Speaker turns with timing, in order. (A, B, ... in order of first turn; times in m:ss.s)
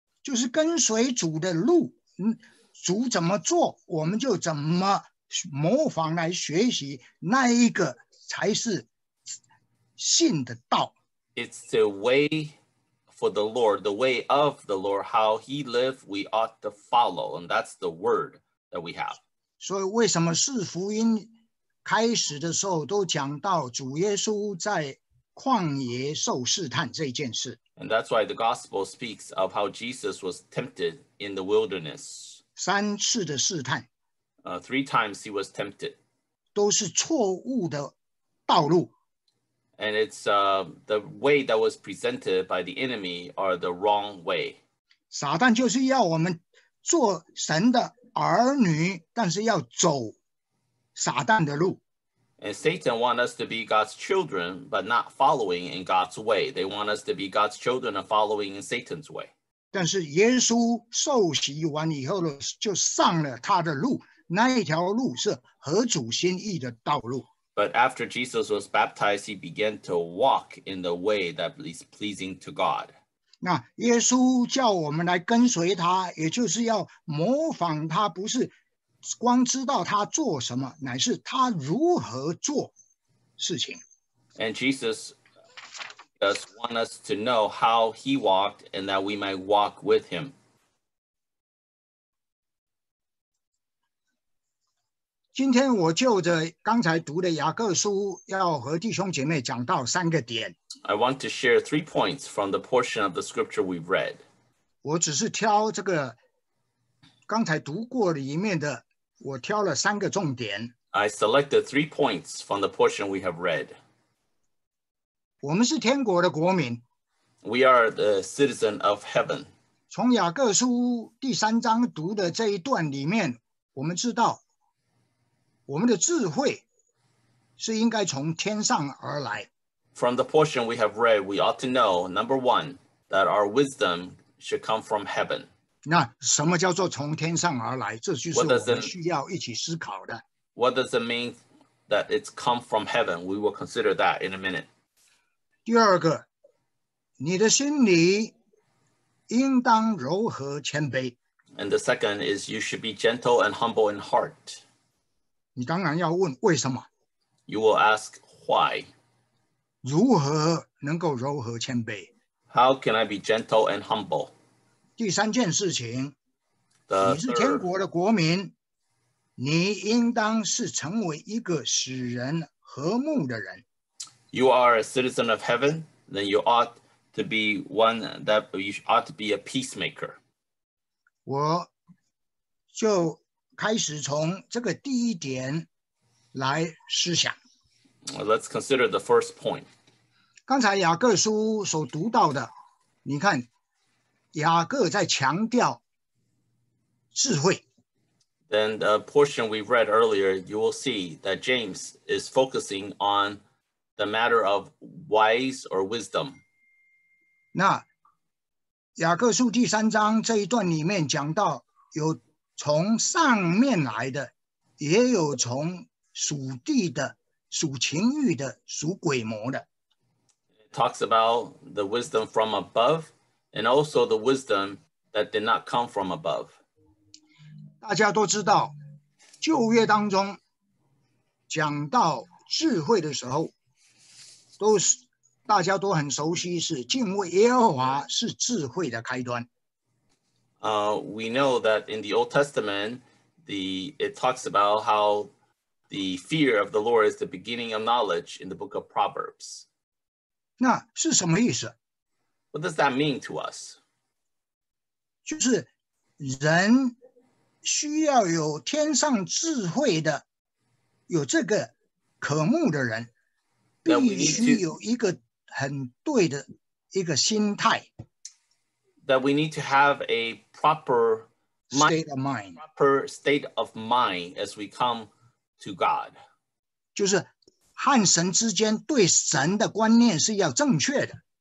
0:00.2-0:08.9 A
0:10.0-0:10.9 A
0:11.4-0:12.6 B
0:13.1-0:19.2 B
0:19.6-0:21.3 A
0:21.8-0:27.6 A
0:27.8-0:32.4 B
0:32.6-0:33.9 A
0:34.4-0:36.0 B
0:36.6-0:38.0 A
0:38.5-0:38.9 A
0:39.8-0:44.6 B
0:45.1-0:50.2 A
0:51.0-0:51.8 A
0:52.4-0:59.3 B
0:59.7-1:07.3 A
1:07.6-1:12.9 B
1:13.4-1:18.5 A
1:19.1-1:22.8 A
1:23.4-1:23.8 A
1:24.4-1:25.2 B
1:26.2-1:30.3 B
1:35.4-1:40.6 A
1:40.8-1:44.2 B
1:44.8-1:46.2 A
1:47.3-1:50.7 A
1:50.9-1:53.8 B
1:55.4-1:56.8 A
1:57.4-1:59.5 B
1:59.9-2:04.4 A
2:05.7-2:06.6 A
2:07.6-2:09.5 A
2:10.0-2:15.5 B
2:15.8-2:20.2 A
2:18.3-2:18.9 B
2:20.6-2:24.7 B
2:25.7-2:26.3 A
2:27.2-2:28.4 A
2:29.3-2:31.2 A
2:31.6-2:34.6 B
2:35.6-2:36.9 A
2:37.5-2:38.9 B
2:39.8-2:42.1 A
2:42.5-2:44.3 B
2:45.0-2:46.2 A
2:46.9-2:47.6 B
2:47.0-2:48.5 A
2:49.4-2:53.6 A
2:54.3-3:00.2 B
3:01.3-3:01.7 A
3:02.7-3:05.7 A
3:06.3-3:07.4 A
3:08.1-3:09.7 B
3:10.5-3:12.5 A
3:13.0-3:13.5 A
3:14.3-3:15.8 A
3:17.1-3:17.6 A
3:18.5-3:23.4 B
3:24.0-3:26.4 B
3:27.5-3:27.9 A
3:29.0-3:39.7 A
3:40.7-3:46.6 B
3:47.8-3:48.8 A
3:49.4-3:50.4 A
3:51.5-3:53.5 A
3:54.6-3:59.5 A
4:00.6-4:05.3 B
4:05.9-4:09.7 B
4:10.6-4:11.8 A
4:12.5-4:13.8 B
4:15.2-4:17.0 A
4:17.6-4:20.2 A
4:21.1-4:23.1 A
4:23.8-4:27.9 A
4:23.9-4:24.6 B
4:29.0-4:31.9 B
4:31.7-4:32.6 A
4:32.6-4:36.2 B
4:37.0-4:41.2 A